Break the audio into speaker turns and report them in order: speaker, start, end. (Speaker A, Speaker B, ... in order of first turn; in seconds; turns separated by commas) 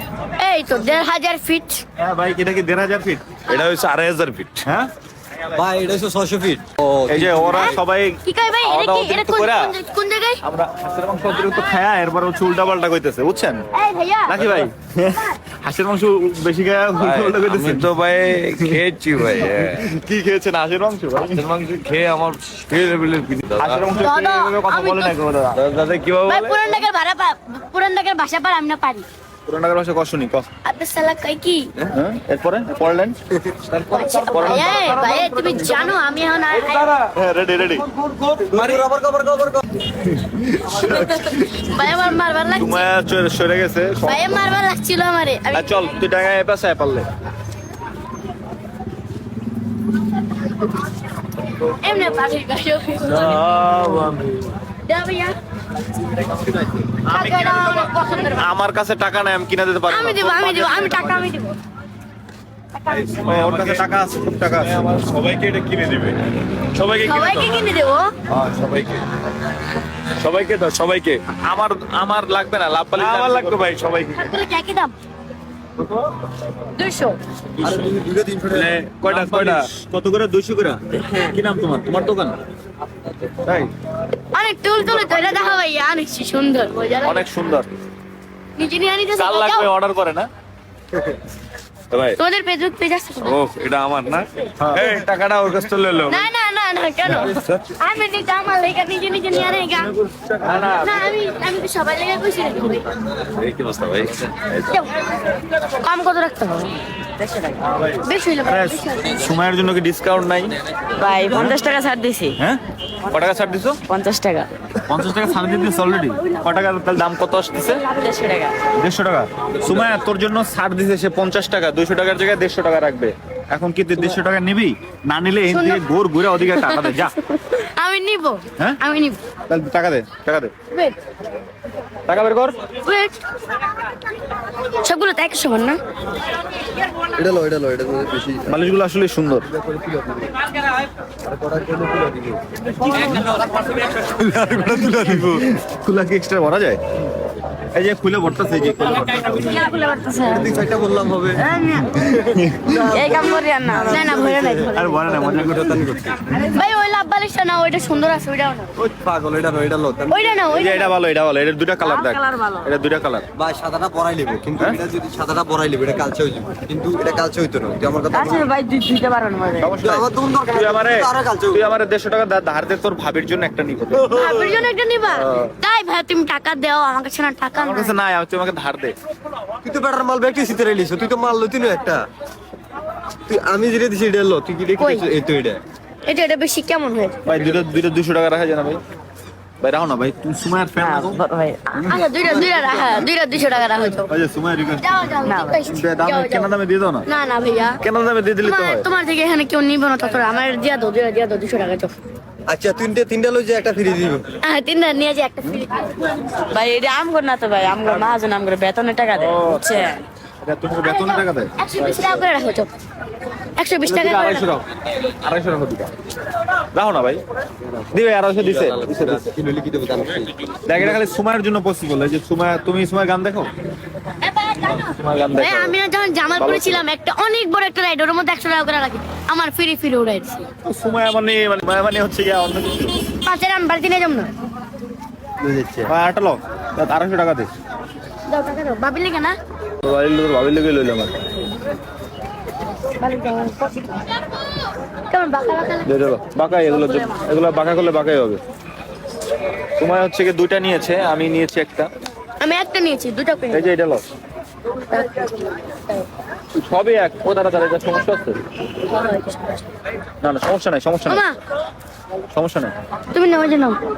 Speaker A: 0.4-1.8, Speaker B: 2.0-3.3, Speaker C: 3.5-4.6, Speaker B: 4.7-4.9, Speaker D: 5.5-7.7, Speaker B: 7.1-9.8, Speaker A: 7.4-10.4, Speaker B: 10.4-13.7, Speaker A: 13.7-14.4, Speaker B: 14.3-17.9, Speaker C: 17.0-19.9, Speaker B: 19.7-21.4, Speaker C: 21.4-23.9, Speaker B: 23.6-25.6, Speaker A: 24.0-25.1, Speaker C: 25.6-26.6, Speaker A: 26.2-29.1, Speaker B: 29.5-30.5, Speaker A: 30.6-31.7, Speaker B: 31.9-33.2, Speaker A: 33.9-37.0, Speaker B: 34.3-35.3, Speaker B: 37.0-37.9, Speaker D: 38.3-39.8, Speaker B: 40.4-41.1, Speaker A: 40.7-42.9, Speaker B: 42.6-44.2, Speaker A: 44.0-45.9, Speaker B: 45.5-47.1, Speaker A: 51.7-53.4, Speaker C: 53.2-54.5, Speaker A: 54.9-55.4, Speaker B: 57.0-61.3, Speaker A: 57.1-58.5, Speaker A: 59.9-61.6, Speaker C: 62.9-63.8, Speaker B: 63.2-64.8, Speaker C: 64.6-66.2, Speaker C: 67.0-67.5, Speaker A: 67.0-68.1, Speaker C: 68.3-69.0, Speaker C: 70.2-71.3, Speaker B: 71.3-73.6, Speaker C: 73.0-74.2, Speaker A: 74.2-74.9, Speaker A: 76.8-77.2, Speaker D: 77.6-78.7, Speaker B: 78.5-82.4, Speaker B: 83.5-83.7, Speaker A: 84.2-87.3, Speaker B: 87.0-87.7, Speaker A: 88.6-89.7, Speaker B: 89.1-90.3, Speaker B: 91.9-92.2, Speaker A: 92.2-93.4, Speaker C: 93.2-94.2, Speaker B: 94.6-95.4, Speaker C: 94.8-96.1, Speaker A: 96.1-100.0, Speaker B: 100.0-101.2, Speaker A: 100.7-103.0, Speaker C: 103.3-104.5, Speaker A: 104.5-105.0, Speaker A: 105.7-106.8, Speaker E: 107.2-107.6, Speaker B: 107.7-110.6, Speaker A: 108.0-109.2, Speaker E: 111.0-112.4, Speaker B: 112.4-113.8, Speaker E: 113.8-114.5, Speaker B: 114.9-117.8, Speaker E: 117.6-118.5, Speaker B: 118.8-127.2, Speaker A: 125.5-129.2, Speaker B: 129.5-130.5, Speaker B: 132.1-132.6, Speaker A: 132.9-133.2, Speaker A: 134.8-135.8, Speaker D: 137.2-138.6, Speaker B: 138.5-139.5, Speaker D: 139.5-140.3, Speaker D: 141.2-142.4, Speaker D: 143.0-145.4, Speaker B: 144.9-146.8, Speaker B: 147.7-149.6, Speaker E: 149.4-150.6, Speaker D: 150.3-151.4, Speaker E: 151.4-151.9, Speaker D: 152.0-156.3, Speaker B: 152.2-152.7, Speaker E: 152.8-154.1, Speaker A: 153.9-155.0, Speaker B: 154.7-155.8, Speaker A: 156.5-158.7, Speaker D: 158.8-160.3, Speaker A: 160.1-160.9, Speaker B: 160.5-163.3, Speaker E: 161.8-162.7, Speaker D: 163.3-168.5, Speaker E: 168.1-169.7, Speaker B: 169.6-174.2, Speaker D: 169.8-171.6, Speaker D: 173.9-174.7, Speaker A: 174.1-178.0, Speaker B: 177.6-178.9, Speaker D: 179.6-182.1, Speaker D: 183.3-185.6, Speaker A: 184.8-185.1, Speaker A: 186.1-187.2, Speaker B: 187.3-188.8, Speaker B: 189.6-191.2, Speaker E: 190.8-191.9, Speaker B: 191.8-192.1, Speaker A: 191.8-194.1, Speaker D: 192.2-193.0, Speaker B: 194.1-195.0, Speaker A: 194.8-196.5, Speaker E: 195.2-195.6, Speaker B: 195.7-197.1, Speaker A: 197.1-197.8, Speaker B: 197.8-198.9, Speaker A: 198.4-201.9, Speaker D: 202.5-204.3, Speaker A: 204.4-206.2, Speaker E: 206.5-210.0, Speaker B: 209.1-209.8, Speaker B: 210.4-211.5, Speaker A: 210.8-212.7, Speaker A: 213.6-214.5, Speaker B: 213.8-214.7, Speaker B: 215.2-215.9, Speaker B: 216.7-217.2, Speaker B: 217.9-219.3, Speaker D: 218.4-220.8, Speaker B: 220.7-223.5, Speaker A: 224.2-230.4, Speaker B: 224.7-225.8, Speaker B: 226.3-226.8, Speaker B: 230.6-233.0, Speaker A: 233.2-234.3, Speaker D: 235.4-235.9, Speaker B: 235.9-237.5, Speaker A: 238.3-239.4, Speaker B: 239.8-241.2, Speaker A: 243.0-244.1, Speaker A: 245.1-245.9, Speaker B: 245.8-248.4, Speaker A: 246.7-247.2, Speaker B: 249.8-251.9, Speaker A: 252.4-253.7, Speaker B: 253.5-254.1, Speaker A: 254.9-256.1, Speaker B: 256.6-258.4, Speaker A: 258.8-259.7, Speaker B: 260.2-261.3, Speaker A: 261.1-261.4, Speaker B: 262.3-262.7, Speaker A: 263.1-263.8